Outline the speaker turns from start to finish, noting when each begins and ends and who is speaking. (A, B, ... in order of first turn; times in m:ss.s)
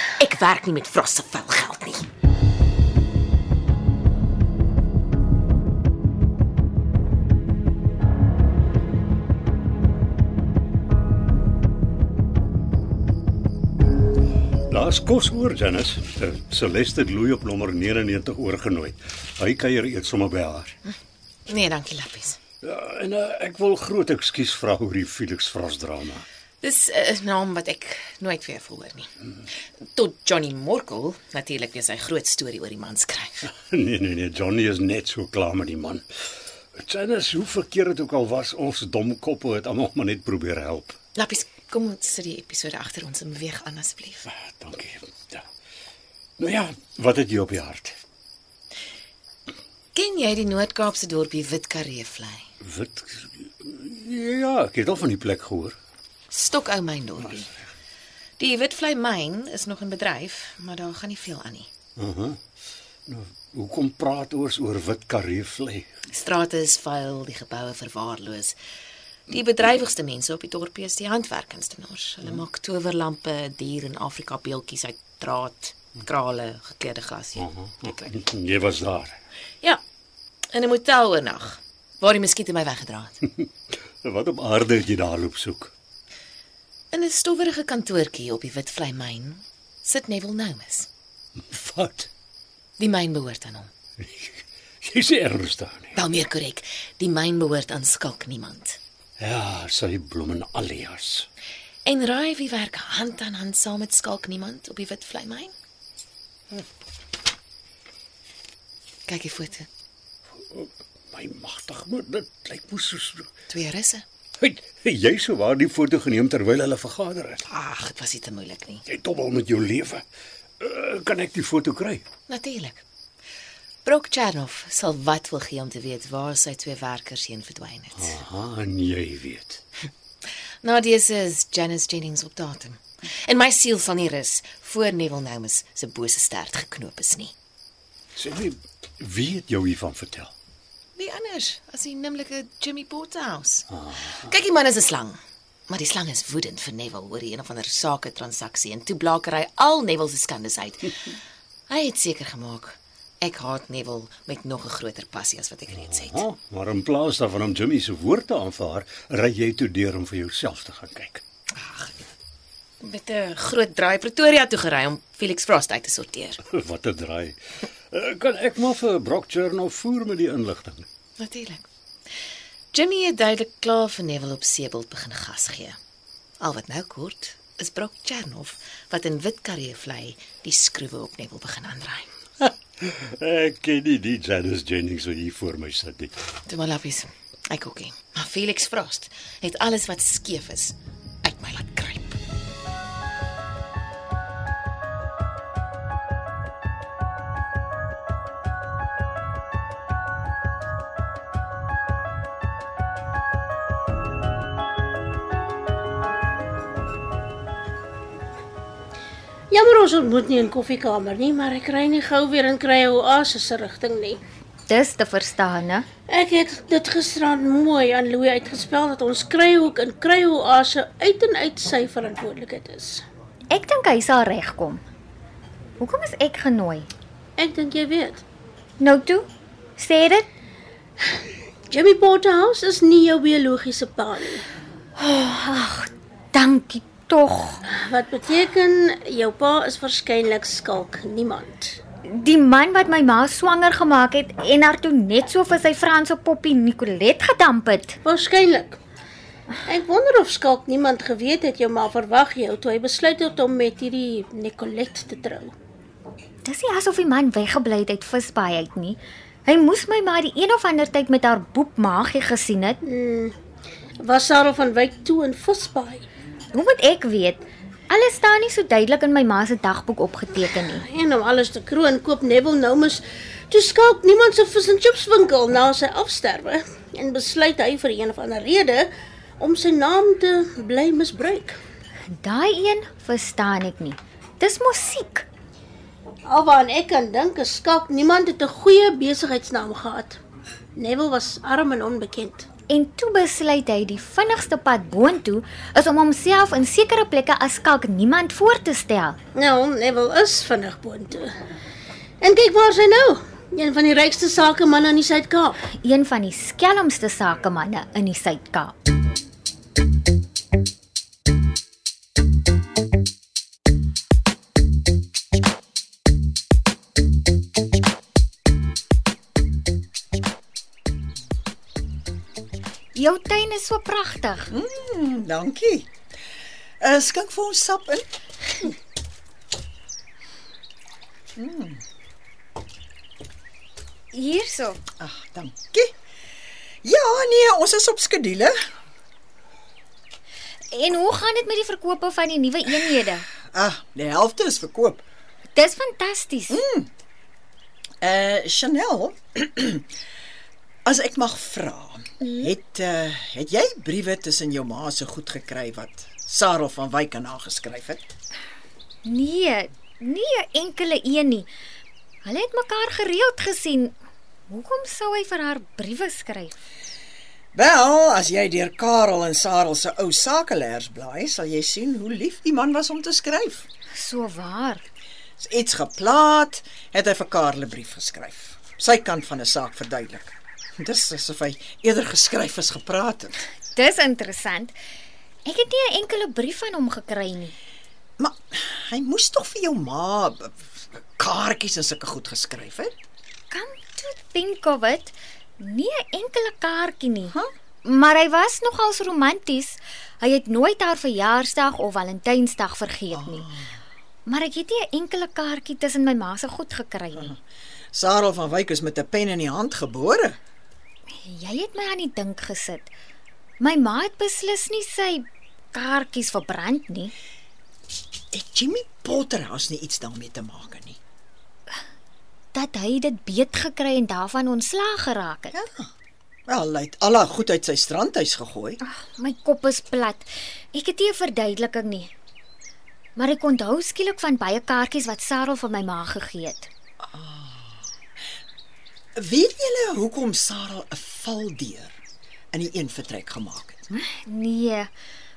0:00.2-0:02.0 A
0:14.7-0:20.8 B
0:21.5-0:22.4 A
0:22.6-0:26.2 B
0:26.6-0:29.1 A
0:29.9-0:33.5 A
0:33.5-0:36.0 B
0:36.8-0:41.0 B
0:41.2-0:44.3 A
0:44.3-0:45.4 B
0:46.4-0:48.0 B
0:49.9-0:52.4 A
0:52.6-0:55.8 B
0:56.3-0:57.5 A
0:58.4-1:01.7 A
1:02.0-1:02.4 B
1:03.1-1:05.9 B
1:06.1-1:08.6 A
1:09.3-1:18.1 A
1:17.4-1:19.2 B
1:20.5-1:23.2 A
1:24.0-1:25.7 B
1:26.9-1:30.9 A
1:31.4-1:32.1 B
1:32.8-1:33.7 A
1:34.0-1:35.9 B
1:35.9-1:38.8 A
1:39.2-1:41.3 B
1:41.8-1:45.5 A
1:49.1-1:49.7 A
1:50.4-1:53.3 B
1:53.5-1:54.0 A
1:54.4-1:57.4 B
1:57.5-1:58.8 A
1:58.9-2:00.0 B
2:00.6-2:02.1 B
2:02.3-2:02.8 A
2:03.8-2:08.1 A
2:08.0-2:09.6 B
2:10.6-2:17.3 A
2:18.2-2:20.3 B
2:21.0-2:31.0 A
2:23.7-2:24.2 B
2:31.7-2:36.2 A
2:35.7-2:41.2 B
2:42.8-2:46.4 A
2:46.5-2:47.4 B
2:47.9-2:50.9 B
2:51.2-2:51.6 A
2:52.7-2:55.8 A
2:56.4-3:02.1 A
3:02.4-3:06.1 B
3:06.5-3:12.2 A
3:29.5-3:34.2 C
3:34.7-3:35.9 D
3:36.1-3:43.0 C
3:43.5-3:44.8 D
3:45.8-3:46.9 D
3:47.4-3:48.2 C
3:48.8-3:49.2 D
3:49.8-3:50.3 D
3:51.7-3:54.5 C
3:55.0-3:57.6 D
3:57.7-4:01.8 C
4:02.1-4:08.0 D
4:08.0-4:08.8 C
4:09.6-4:15.5 C
4:16.4-4:22.8 D
4:22.8-4:23.4 C
4:24.0-4:26.0 C
4:26.5-4:30.8 D
4:30.7-4:41.6 C
4:42.1-4:45.3 D
4:46.2-4:50.2 C
4:50.8-4:52.5 C
4:52.7-4:59.2 D
4:59.3-5:01.3 C
5:02.2-5:05.6 C
5:05.8-5:08.7 D
5:22.9-5:24.5 D
5:24.5-5:25.9 E
5:26.8-5:28.0 E
5:31.4-5:31.8 E
5:34.1-5:34.8 D
5:35.0-5:35.9 E
5:36.8-5:38.6 E
5:40.7-5:43.3 D
5:43.5-5:45.0 E
5:45.5-5:46.6 D
5:46.5-5:46.9 E
5:48.0-5:49.8 E
5:50.8-5:58.1 E
5:59.0-6:01.5 D
6:02.2-6:03.9 D
6:04.5-6:06.5 D
6:07.5-6:13.6 E
6:14.0-6:14.8 D
6:15.4-6:23.3 E
6:23.7-6:24.7 D
6:25.4-6:27.5 D
6:28.2-6:33.0 E
6:33.5-6:43.5 D
6:43.2-6:43.6 E
6:44.3-6:47.3 D
6:47.9-6:50.4 E
6:51.2-6:52.9 D
6:53.6-6:57.1 D
6:58.3-7:01.0 E
7:02.5-7:05.6 D
7:05.5-7:05.9 E
7:06.5-7:08.8 E
7:08.8-7:12.1 D
7:13.2-7:16.7 D
7:17.1-7:17.7 E
7:19.2-7:21.9 E
7:22.5-7:24.0 E
7:24.2-7:24.9 D